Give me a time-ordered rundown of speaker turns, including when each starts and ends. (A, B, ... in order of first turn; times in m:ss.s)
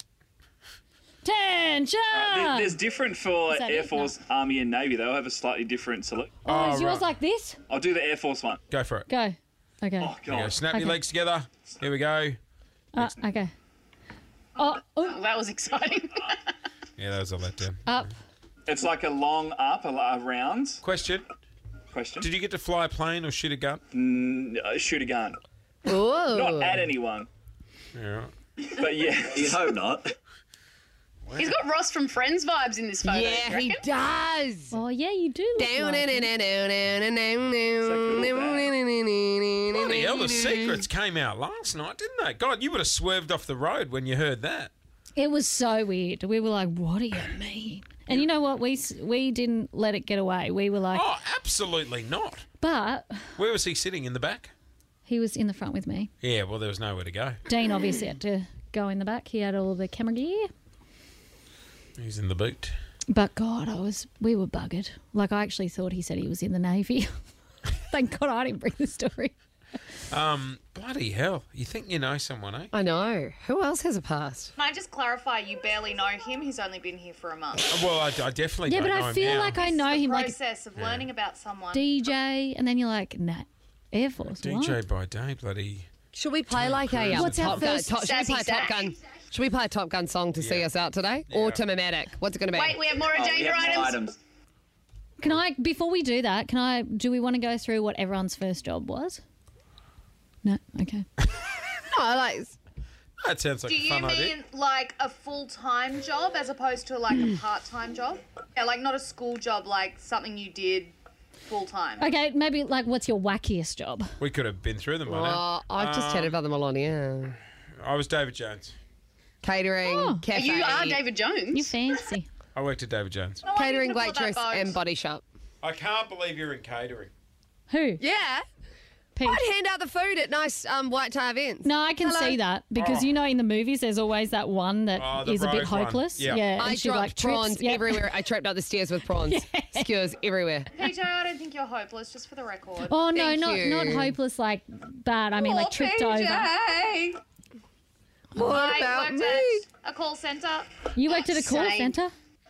0:01.2-0:02.8 A
0:02.1-0:06.4 B
0:03.5-0:04.1 A
0:06.4-0:07.6 A
0:06.5-0:07.1 C
0:07.7-0:08.6 B
0:08.7-0:09.1 C
0:09.1-0:10.2 A
0:10.0-0:10.6 B
0:10.2-0:12.4 C
0:10.7-0:11.0 A
0:12.9-0:13.5 A
0:14.6-0:15.2 A
0:15.0-0:16.4 D
0:17.0-0:18.0 C
0:17.9-0:18.1 A
0:18.7-0:20.8 B
0:20.8-0:21.3 C
0:21.9-0:22.3 B
0:22.2-0:23.8 C
0:23.9-0:25.4 B
0:25.9-0:26.8 E
0:26.3-0:27.3 B
0:27.9-0:28.3 C
0:28.7-0:29.7 B
0:29.2-0:30.1 F
0:31.3-0:31.6 C
0:31.4-0:33.8 D
0:33.0-0:34.8 E
0:34.7-0:36.3 A
0:35.6-0:40.9 E
0:37.8-0:38.7 B
0:39.7-0:44.7 C
0:45.2-0:51.0 A
0:50.9-0:52.5 C
0:52.6-0:53.4 A
0:53.4-0:54.5 C
0:55.1-0:56.1 A
0:56.2-0:57.4 C
0:57.5-1:00.5 A
1:02.0-1:02.8 C
1:03.1-1:07.1 A
1:07.9-1:09.3 A
1:10.1-1:12.7 C
1:12.7-1:14.5 E
1:14.6-1:17.8 G
1:17.7-1:19.6 C
1:18.7-1:20.4 A
1:19.4-1:21.9 G
1:20.8-1:21.1 C
1:21.7-1:24.8 A
1:24.4-1:25.9 C
1:26.1-1:32.8 E
1:26.5-1:27.7 C
1:27.1-1:28.0 A
1:27.9-1:28.9 D
1:30.4-1:30.7 C
1:31.3-1:31.6 C
1:32.5-1:34.0 D
1:33.0-1:34.2 F
1:35.2-1:39.2 A
1:40.4-1:41.1 A
1:41.8-1:42.6 E
1:43.2-1:44.4 C
1:43.7-1:50.9 G
1:51.4-1:52.1 G
1:52.0-1:54.1 A
1:54.2-1:56.4 C
1:55.1-1:57.4 E
1:57.8-1:58.8 C
1:59.4-2:01.0 E
1:59.9-2:00.3 A
2:00.3-2:01.7 D
2:01.5-2:02.3 A
2:02.6-2:03.4 C
2:03.4-2:04.8 G
2:03.5-2:05.2 E
2:05.6-2:07.1 C
2:07.7-2:08.0 A
2:08.0-2:08.4 E
2:09.2-2:09.4 A
2:09.2-2:12.4 E
2:11.6-2:18.2 A
2:12.8-2:13.1 C
2:15.0-2:16.6 C
2:16.6-2:20.7 E
2:19.2-2:19.9 A
2:20.8-2:23.0 G
2:22.9-2:26.5 A
2:23.1-2:24.2 E
2:25.4-2:27.2 G
2:28.4-2:29.6 E
2:28.4-2:31.5 G
2:31.0-2:32.1 A
2:31.3-2:32.0 D